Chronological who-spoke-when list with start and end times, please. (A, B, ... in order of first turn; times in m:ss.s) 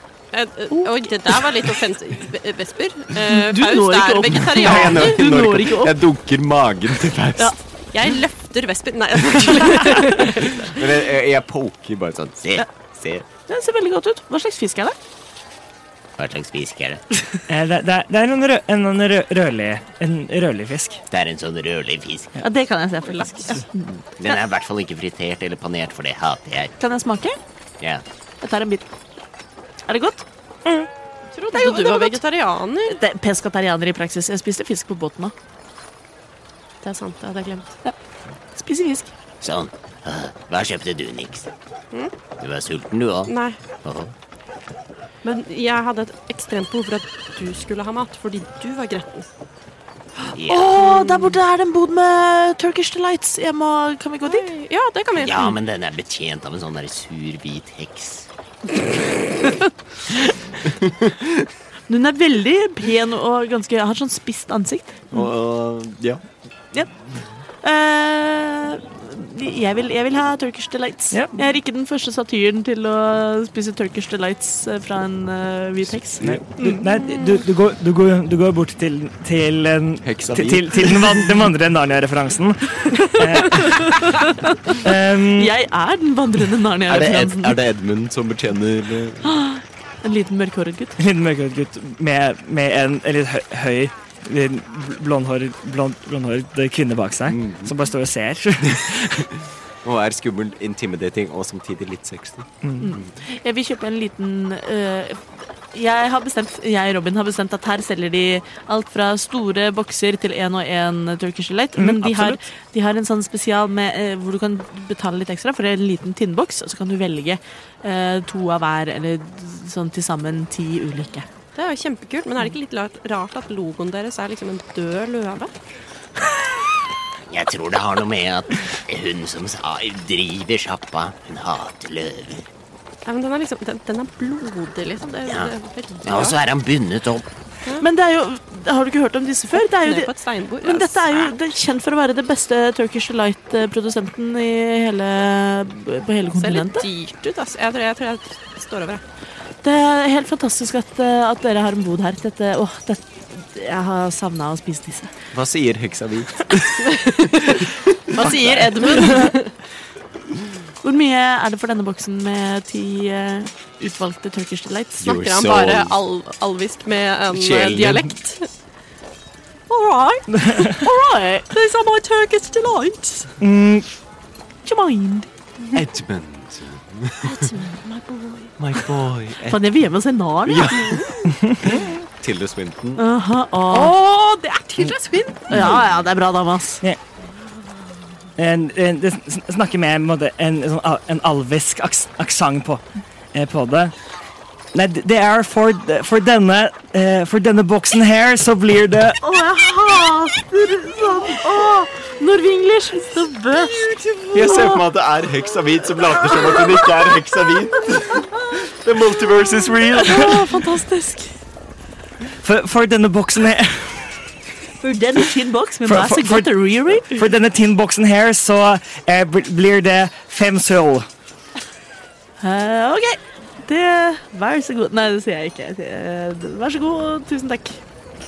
0:00.3-0:05.2 A
0:00.7-0:01.4 B
0:03.2-0:06.0 B
0:04.6-0:07.5 C
0:07.9-0:10.8 A
0:10.6-0:13.2 C
0:13.5-0:15.0 B
0:16.2-0:17.0 D
0:17.5-0:21.0 E
0:21.1-0:22.4 D
0:22.4-0:24.4 B
0:23.1-0:23.6 A
0:24.2-0:26.7 D
0:26.8-0:27.4 B
0:28.4-0:28.8 B
0:29.9-0:30.2 B
0:31.3-0:33.0 A
0:31.5-0:32.2 B
0:32.9-0:35.3 B
0:36.8-0:37.8 A
0:38.6-0:39.1 B
0:39.4-0:41.5 D
0:42.4-0:44.1 D
0:43.3-0:43.6 A
0:45.2-0:49.3 A
0:50.3-0:54.4 B
0:50.3-0:50.8 D
0:50.8-0:51.4 A
0:54.3-0:55.6 A
0:55.2-0:58.3 D
1:00.8-1:01.1 C
1:01.9-1:05.3 B
1:05.1-1:06.2 C
1:07.6-1:16.9 B
1:11.1-1:11.4 E
1:16.2-1:24.2 E
1:17.1-1:17.4 A
1:20.0-1:21.3 C
1:23.5-1:24.7 B
1:24.8-1:25.5 E
1:25.4-1:27.6 B
1:26.9-1:29.4 C
1:29.2-1:31.0 B
1:31.0-1:39.3 E
1:37.3-1:37.7 C
1:39.8-1:42.5 C
1:42.6-1:42.9 E
1:42.8-2:01.3 B
1:51.8-1:52.4 E
2:01.6-2:05.5 A
2:07.3-2:12.5 D
2:13.0-2:16.4 A
2:15.3-2:15.5 D
2:16.0-2:17.3 D
2:17.8-2:26.9 B
2:19.6-2:21.3 A
2:26.4-2:29.0 A
2:29.6-2:35.1 B
2:35.3-2:37.6 C
2:36.9-2:39.5 A
2:38.1-2:38.8 C
2:38.8-2:39.3 B
2:40.8-2:45.1 B
2:45.0-2:46.0 C
2:45.0-2:48.5 A
2:47.3-2:48.1 C
2:49.7-2:50.6 A
2:50.6-2:51.5 B
2:51.5-2:53.3 A
2:53.4-2:53.9 E
2:54.6-2:55.3 B
2:55.7-2:57.5 C
2:57.2-2:58.5 A
2:58.6-2:59.8 C
2:59.4-3:01.1 B
3:00.4-3:01.0 C
3:00.7-3:01.1 A
3:01.3-3:01.8 E
3:01.6-3:03.0 C
3:03.0-3:03.9 B
3:03.7-3:05.5 A
3:05.5-3:06.8 B
3:08.4-3:12.8 E
3:13.3-3:13.9 E
3:14.7-3:19.2 E
3:19.2-3:24.8 B
3:23.9-3:30.3 C
3:26.3-3:27.0 B
3:30.0-3:31.4 B
3:32.4-3:34.2 E
3:34.8-3:37.2 B
3:35.8-3:41.1 E
3:42.4-3:47.8 B